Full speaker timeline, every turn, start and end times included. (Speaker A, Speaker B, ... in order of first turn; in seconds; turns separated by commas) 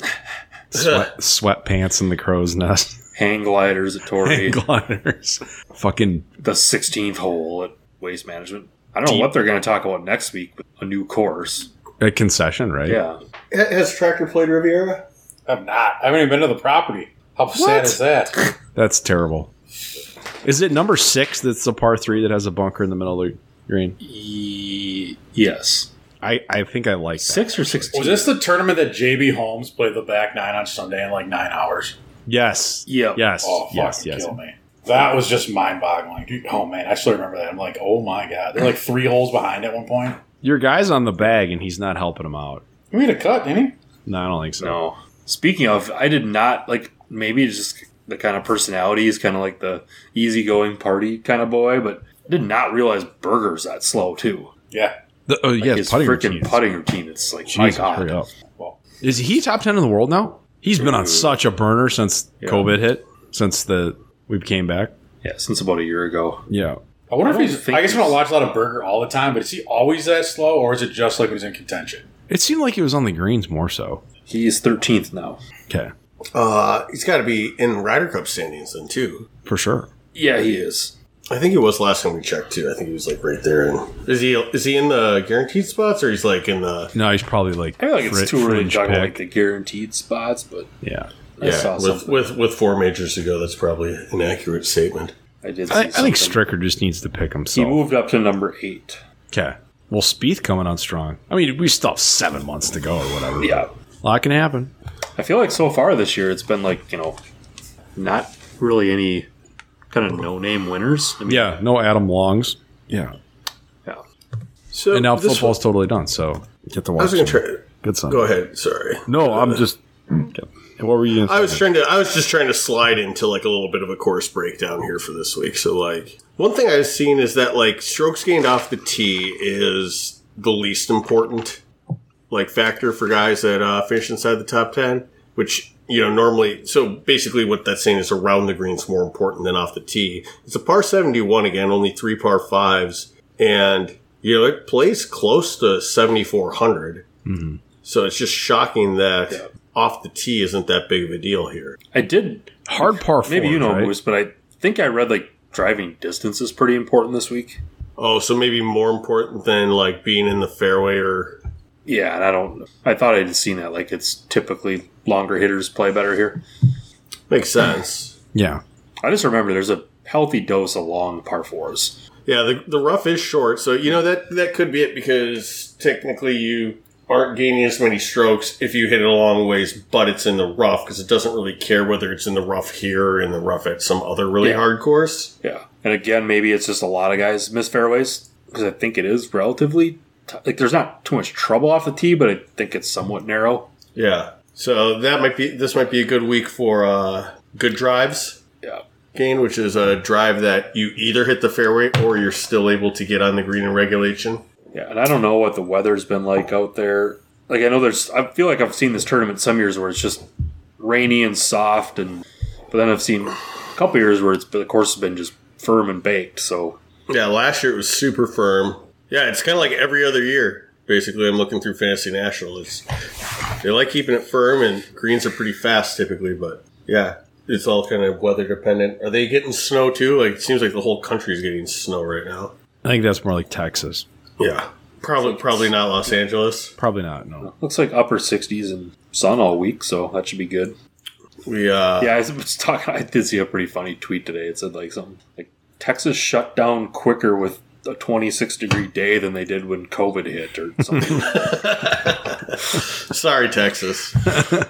Speaker A: 0.7-3.0, Speaker B: 3.1-4.6, Speaker A: 4.2-6.3, Speaker B: 6.4-11.7, Speaker A: 9.1-9.3, Speaker A: 12.0-13.0, Speaker B: 12.9-13.2, Speaker C: 13.5-15.1, Speaker D: 15.5-18.4, Speaker A: 17.6-18.0, Speaker A: 18.8-19.5, Speaker A: 20.4-24.0, Speaker B: 24.0-25.9, Speaker A: 26.2-28.3, Speaker B: 27.2-28.3, Speaker D: 27.9-32.0, Speaker A: 32.3-34.4, Speaker B: 32.9-33.2, Speaker D: 33.4-40.2, Speaker A: 40.4-42.6, Speaker D: 42.9-43.8, Speaker A: 44.1-44.8, Speaker B: 44.6-54.5, Speaker A: 55.3-56.6, Speaker B: 55.6-58.3, Speaker A: 57.5-58.3, Speaker A: 59.0-64.9, Speaker B: 60.8-61.3, Speaker B: 62.4-62.7, Speaker B: 65.2-66.5, Speaker A: 66.5-66.8, Speaker D: 67.1-72.1, Speaker B: 67.2-68.2, Speaker A: 72.3-74.0, Speaker B: 74.3-75.4, Speaker C: 76.3-79.3, Speaker A: 79.5-79.9, Speaker B: 80.1-80.9, Speaker C: 81.3-86.9, Speaker A: 87.0-89.2, Speaker B: 87.8-90.7, Speaker A: 90.8-91.1, Speaker B: 91.4-92.3, Speaker C: 91.4-95.1, Speaker B: 95.4-96.4, Speaker A: 95.7-97.8, Speaker B: 97.5-99.0, Speaker A: 99.3-104.7, Speaker B: 103.4-103.7, Speaker B: 105.2-107.2, Speaker B: 108.0-109.3, Speaker B: 109.9-111.6, Speaker A: 111.3-113.2, Speaker C: 114.7-115.6, Speaker A: 114.9-118.3, Speaker C: 117.0-119.7, Speaker A: 119.1-121.6, Speaker C: 121.2-131.6, Speaker C: 132.3-147.1, Speaker A: 147.2-147.6, Speaker C: 147.8-151.8, Speaker B: 151.9-157.6, Speaker A: 152.7-153.9, Speaker C: 158.0-161.4, Speaker B: 161.9-166.4, Speaker C: 167.3-168.2, Speaker A: 168.3-168.6, Speaker B: 169.0-172.0, Speaker C: 172.3-185.3, Speaker B: 184.4-184.7, Speaker B: 185.4-193.7, Speaker C: 193.9-198.4, Speaker C: 199.1-204.4, Speaker B: 204.7-216.8, Speaker C: 217.1-222.9, Speaker C: 223.6-232.5, Speaker A: 232.8-234.1, Speaker C: 234.4-236.8, Speaker B: 235.2-235.7, Speaker A: 236.8-237.5, Speaker B: 237.4-240.8, Speaker C: 241.4-242.2, Speaker B: 242.0-251.6, Speaker C: 251.2-254.5